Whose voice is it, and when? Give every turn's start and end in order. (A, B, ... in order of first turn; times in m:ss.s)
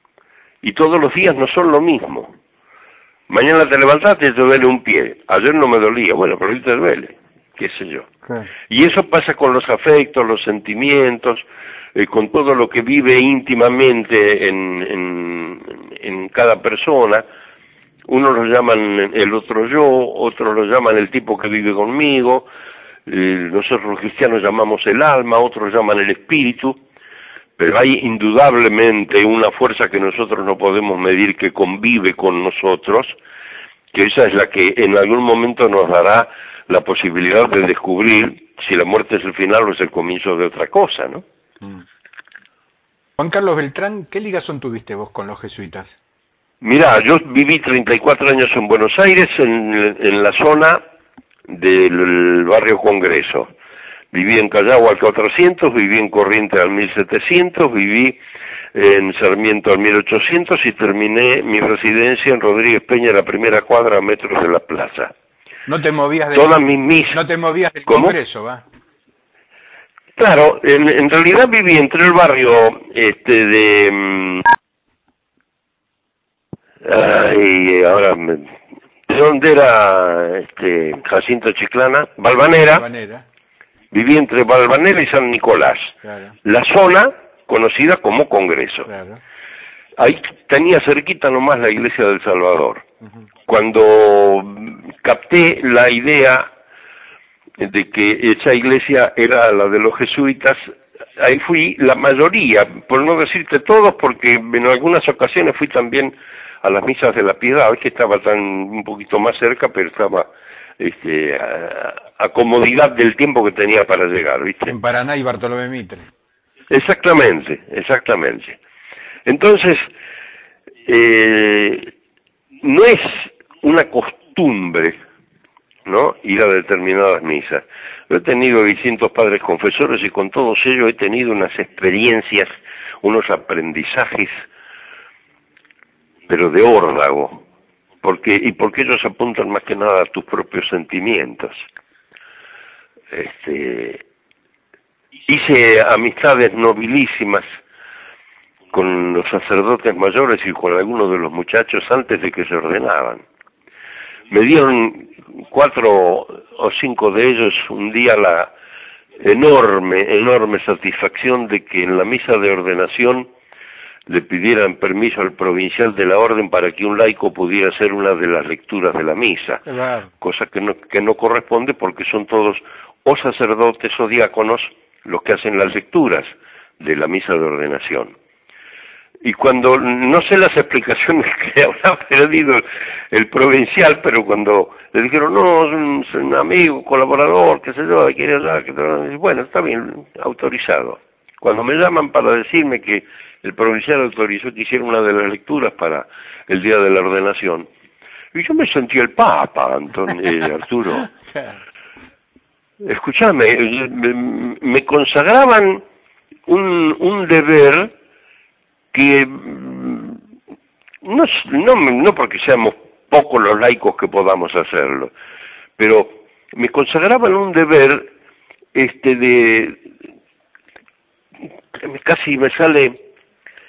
0:00.6-0:02.3 A
0:03.3-0:08.1 A
0:08.7-0:17.2 A
0:18.1-0:22.5 A
0:23.1-0:26.8 A
0:27.6-0:33.2 A
0:33.9-0:41.2 A
0:43.2-0:45.9 B
0:46.6-0:50.8 A
0:51.5-0:53.5 A
0:54.1-0:58.2 A
0:58.7-1:05.1 A
1:05.7-1:06.6 B
1:06.4-1:07.2 A
1:07.1-1:08.6 B
1:07.9-1:08.2 A
1:10.2-1:14.5 A
1:16.8-1:18.5 A
1:19.1-1:22.9 A
1:22.7-1:23.3 B
1:23.9-1:28.9 A
1:26.0-1:26.4 B
1:28.9-1:29.2 B
1:30.0-1:32.8 A
1:33.5-1:36.5 A
1:37.6-1:50.3 A
1:50.8-1:54.7 A
1:54.7-1:56.1 B
1:56.7-1:58.6 A
1:59.3-1:59.9 A
2:00.9-2:01.9 A
2:02.6-2:05.0 A
2:05.9-2:12.5 A
2:13.0-2:14.4 A
2:16.3-2:17.4 A
2:18.0-2:21.6 A
2:23.1-2:24.0 A
2:25.3-2:27.4 A
2:28.7-2:33.2 A
2:34.3-2:38.5 A
2:39.2-2:43.3 A
2:44.1-2:49.6 A
2:49.7-2:50.1 B
2:50.2-2:58.1 A
2:59.2-3:17.7 A
3:18.3-3:21.1 A
3:22.8-3:25.8 A
3:26.5-3:27.9 A
3:28.9-3:30.2 A
3:31.0-3:35.1 A
3:35.8-3:38.1 A
3:38.7-3:39.8 A
3:41.7-3:43.0 A